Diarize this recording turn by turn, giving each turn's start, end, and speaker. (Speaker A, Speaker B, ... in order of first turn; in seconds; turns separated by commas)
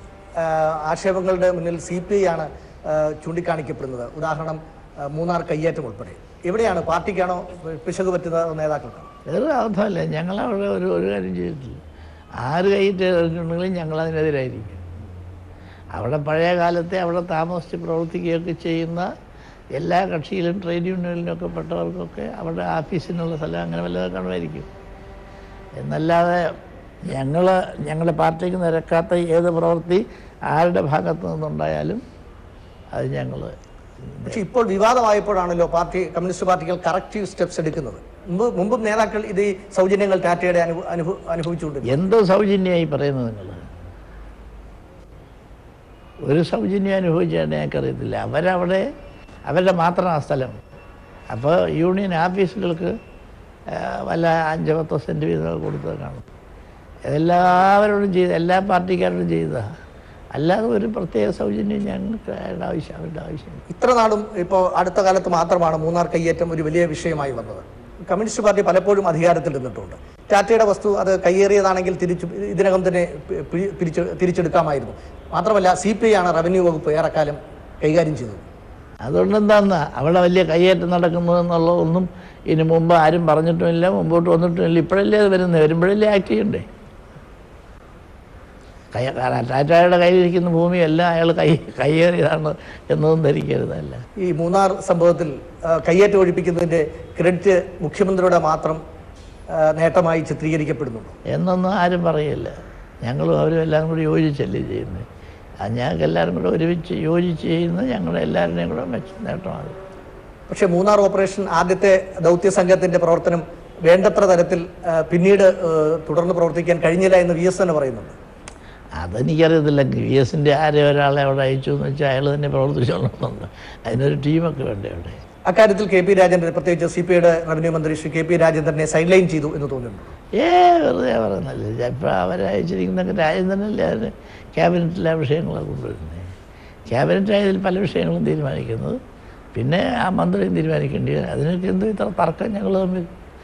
Speaker A: 0.4-9.1, Speaker B: 9.3-11.8, Speaker B: 12.4-14.8, Speaker B: 16.0-19.1, Speaker B: 19.8-24.7, Speaker B: 25.8-26.5, Speaker B: 27.1-32.0, Speaker B: 32.9-33.5, Speaker B: 34.1-34.4, Speaker A: 34.3-42.0, Speaker B: 41.9-43.7, Speaker B: 46.3-48.8, Speaker B: 49.5-50.6, Speaker B: 51.3-52.9, Speaker B: 53.7-56.2, Speaker B: 57.1-59.6, Speaker B: 60.4-63.6, Speaker A: 63.7-78.5, Speaker B: 79.0-86.6, Speaker B: 88.9-94.0, Speaker A: 94.2-98.8, Speaker A: 99.6-101.2, Speaker B: 101.3-105.0, Speaker B: 105.6-109.8, Speaker A: 110.5-118.2, Speaker B: 119.0-125.2, Speaker A: 125.5-130.1, Speaker B: 130.4-136.3, Speaker B: 136.9-139.0, Speaker B: 139.6-143.1